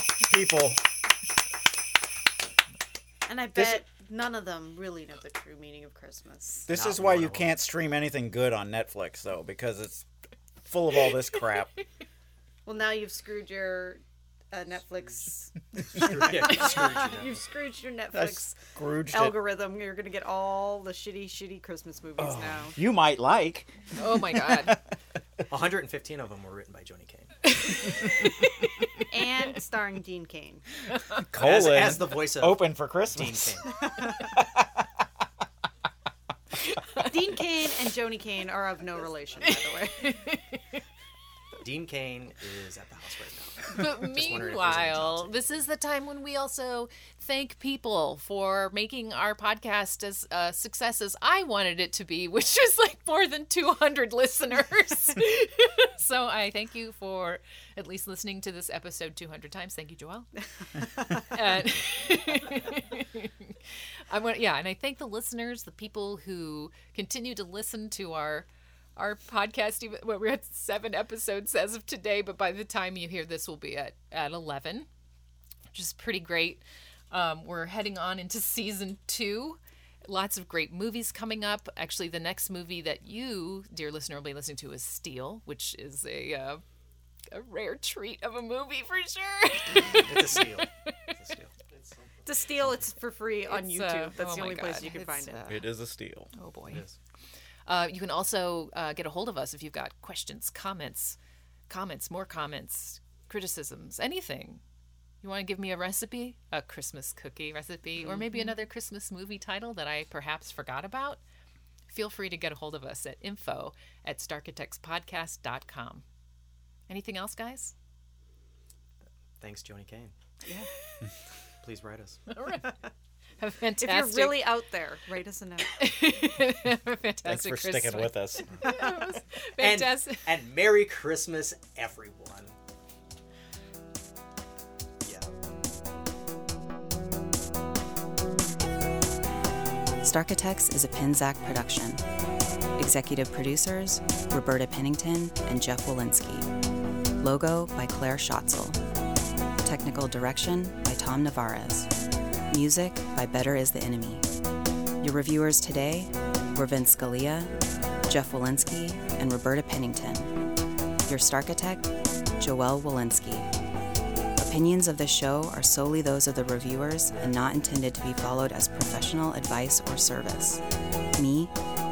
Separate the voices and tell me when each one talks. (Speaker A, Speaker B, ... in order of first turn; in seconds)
Speaker A: 0.3-0.8, 3.5-3.8, 6.7-10.1, 10.6-11.7, 18.1-19.4, 22.2-24.8, 31.3-34.8, 95.5-96.3, 127.2-128.5
Speaker B: 3.2-6.7, 12.7-22.8, 29.1-30.6, 37.0-40.2, 92.2-95.4, 108.0-108.4, 123.8-125.8
Speaker C: 6.7-7.5, 15.9-17.5, 25.5-27.3, 31.3-33.8, 41.6-45.6, 89.9-91.8, 96.7-96.9, 119.4-120.1, 121.6-122.2, 129.6-132.5, 135.0-135.3
Speaker D: 23.9-24.8, 27.7-29.0, 36.7-37.1, 40.0-40.8, 43.7-60.3, 61.1-63.5, 64.1-74.9, 75.7-86.6, 87.3-90.4, 93.5-95.6, 96.3-96.8, 97.7-101.2, 101.7-104.6, 105.2-111.2, 111.9-116.0, 116.9-117.7, 122.3-122.8, 123.4-124.5, 125.7-130.3
Speaker E: 140.0-142.0, 142.8-146.5, 147.2-148.8, 149.6-151.9, 152.5-154.2, 155.0-157.5, 158.1-160.3, 161.0-163.5, 164.3-170.6, 171.1-171.5